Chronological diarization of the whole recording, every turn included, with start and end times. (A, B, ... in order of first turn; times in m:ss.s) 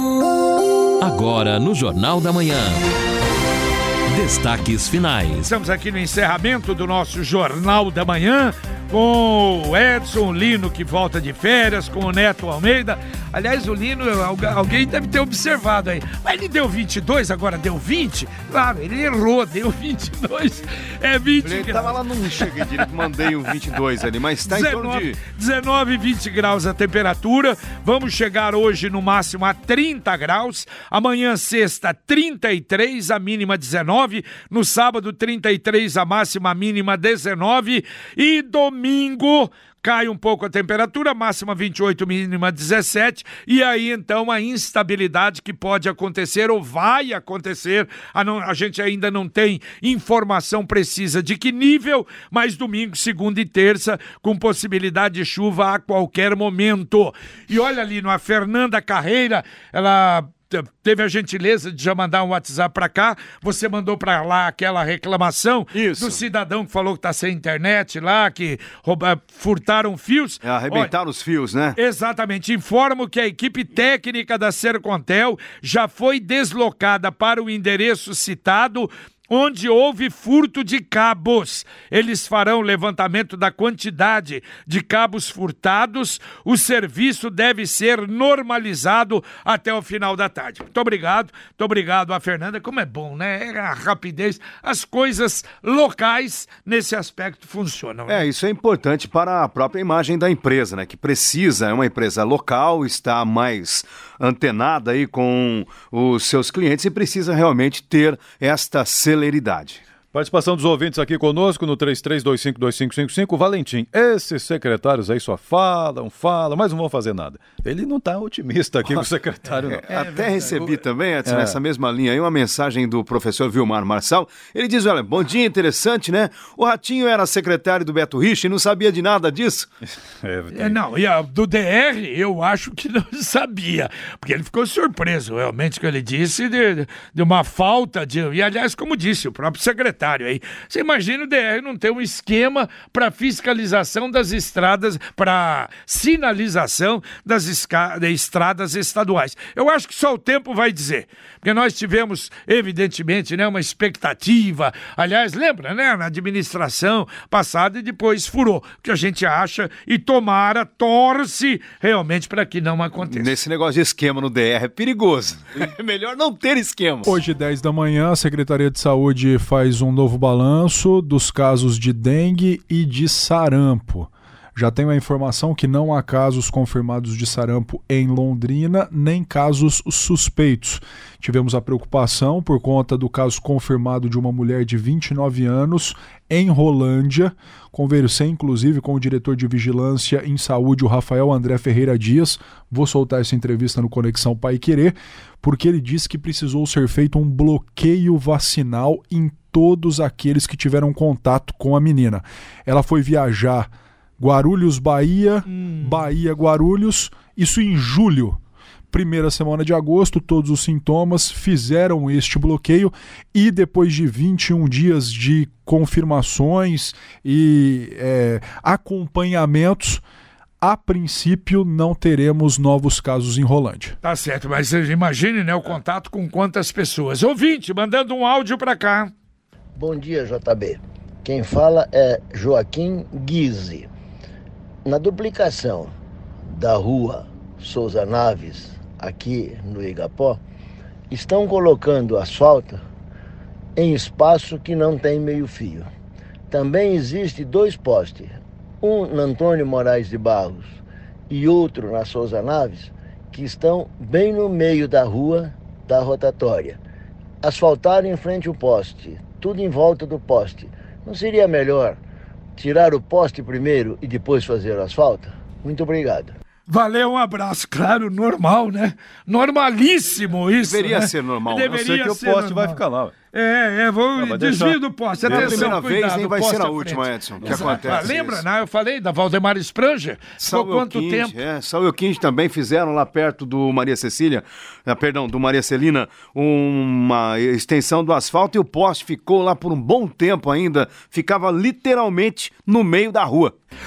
0:01.1-0:02.7 A
0:04.4-0:05.2 A
0:05.4-0:23.3 B
0:21.4-0:25.2 C
0:24.4-1:10.9 B
1:05.7-1:06.2 C
1:10.4-1:11.8 C
1:11.8-1:38.2 B
1:38.1-1:49.8 C
1:50.1-1:59.8 D
1:59.8-2:00.6 B
1:59.9-2:09.7 C
2:01.2-2:01.6 D
2:10.2-2:10.8 D
2:10.5-2:43.3 B
2:43.1-2:47.2 C
2:47.0-3:28.4 E
3:25.5-3:26.1 B
3:28.9-3:40.0 E
3:40.6-3:44.0 E
3:44.0-3:49.1 B
3:49.8-3:53.9 F
3:54.8-3:55.9 F
3:56.4-4:00.4 F
4:01.1-4:02.8 F
4:03.8-4:05.9 F
4:06.5-4:10.8 F
4:11.3-4:16.8 F
4:17.4-4:22.0 F
4:22.6-4:26.3 F
4:26.7-4:32.8 B
4:30.6-4:31.7 C
4:31.7-4:33.1 D
4:33.3-4:41.4 B
4:34.2-4:35.7 D
4:35.2-4:38.4 C
4:40.4-4:53.5 C